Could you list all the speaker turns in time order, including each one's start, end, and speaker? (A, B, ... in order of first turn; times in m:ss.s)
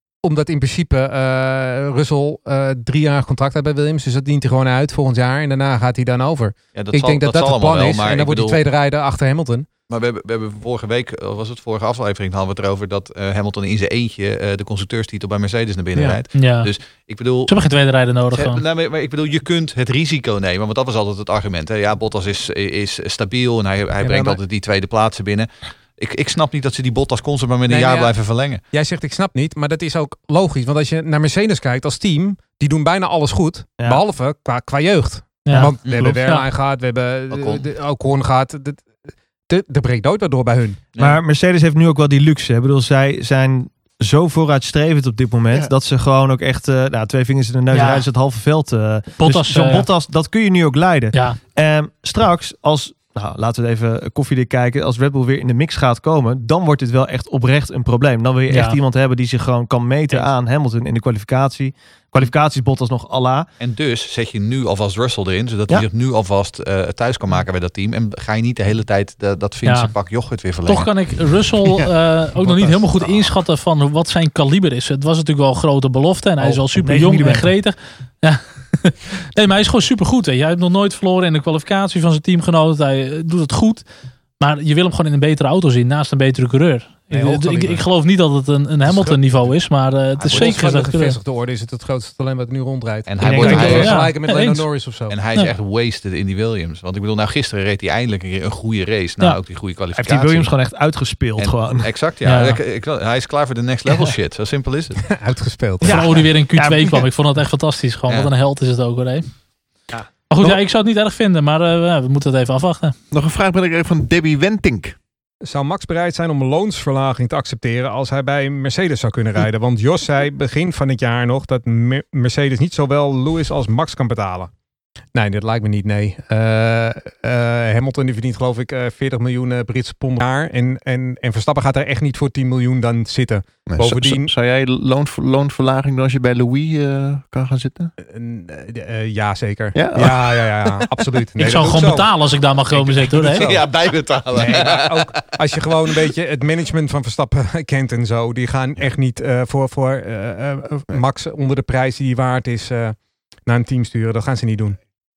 0:00.2-0:09.7 A
0:06.7-0:08.6 B
0:09.9-0:17.5 B
0:16.3-0:16.7 C
0:17.5-0:18.6 C
0:18.3-0:28.6 B
0:27.6-0:28.1 A
0:28.7-0:39.0 A
0:33.8-0:34.0 D
0:35.4-0:36.4 C
0:35.5-0:36.2 D
0:35.8-0:36.2 B
0:37.3-0:37.7 B
0:39.5-0:40.9 A
0:40.9-0:41.2 B
0:41.0-1:03.5 D
0:47.7-0:48.1 C
0:49.2-0:49.9 C
0:51.1-0:51.4 C
0:58.5-0:58.8 C
1:03.6-1:10.9 B
1:09.6-1:09.9 C
1:10.7-1:23.8 C
1:16.7-1:17.5 D
1:24.4-1:31.2 C
1:27.1-1:27.8 A
1:28.8-1:29.5 A
1:30.2-1:30.6 B
1:30.3-1:35.2 A
1:33.0-1:34.0 B
1:33.2-1:34.0 D
1:33.4-1:34.6 C
1:35.1-1:40.5 B
1:40.0-1:41.9 D
1:41.4-1:45.0 B
1:42.2-1:42.6 C
1:45.0-1:46.0 A
1:45.8-1:47.0 D
1:45.8-1:49.3 C
1:49.9-1:50.5 D
1:50.3-1:52.9 C
1:53.1-1:55.0 E
1:55.4-2:04.5 A
2:05.1-2:14.3 A
2:13.7-2:17.9 E
2:18.0-2:22.1 A
2:19.7-2:20.9 E
2:21.4-2:23.5 C
2:22.7-2:23.6 A
2:23.2-2:25.2 B
2:24.3-2:34.8 A